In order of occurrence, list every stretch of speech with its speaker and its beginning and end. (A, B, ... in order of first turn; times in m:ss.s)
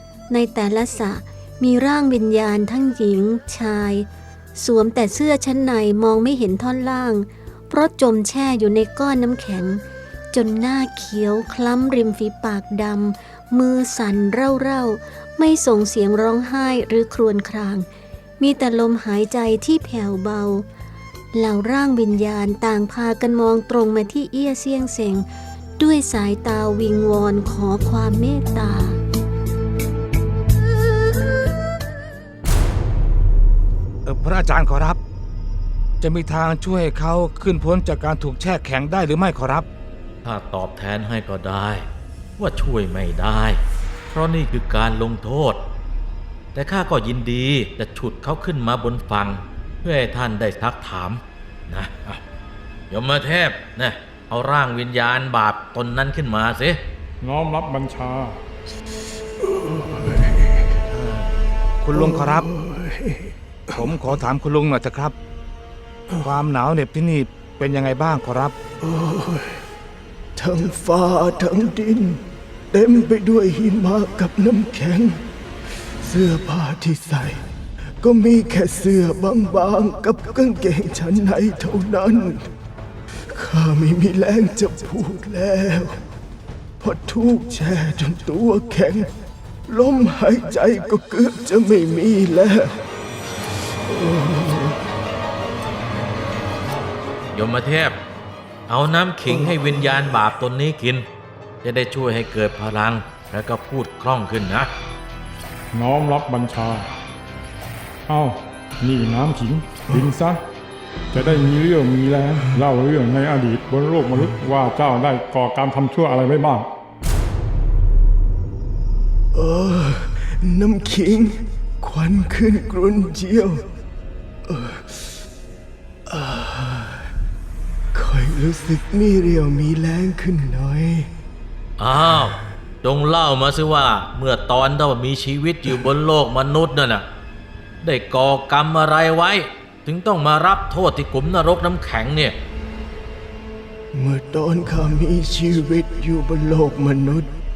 0:00.3-0:09.8 A
0:10.3-0:17.8 A
0:18.4-0:20.6 A
0:21.3-0:25.2 A
0:25.8-0:29.0 A
0:34.0-0:35.0 B
0:36.0-0:39.7 B
0:40.2-0:41.9 C
0:42.4-0:43.6 C
0:44.1-0:45.6 C
0:46.5-0:52.2 C
0:52.9-0:56.8 C
0:57.2-0:58.4 D
0:59.9-1:00.4 E
1:00.9-1:01.3 B
1:01.8-1:02.5 B
1:01.9-1:03.8 E
1:03.7-1:05.1 B
1:06.2-1:08.6 B
1:08.8-1:09.6 E
1:10.4-1:15.2 E
1:16.0-1:17.4 E
1:18.0-1:22.5 E
1:23.3-1:26.0 E
1:26.8-1:29.1 E
1:29.7-1:32.8 E
1:33.9-1:34.8 E
1:37.3-1:38.0 C
1:38.7-1:41.1 C
1:41.6-1:44.7 C
1:45.7-1:46.9 D
1:48.1-1:50.4 D
1:51.1-1:56.7 D
1:59.3-2:03.7 E
2:04.5-2:05.1 E
2:06.1-2:07.1 E
2:07.9-2:11.1 E
2:11.8-2:17.0 C
2:17.8-2:22.4 C
2:23.9-2:27.3 E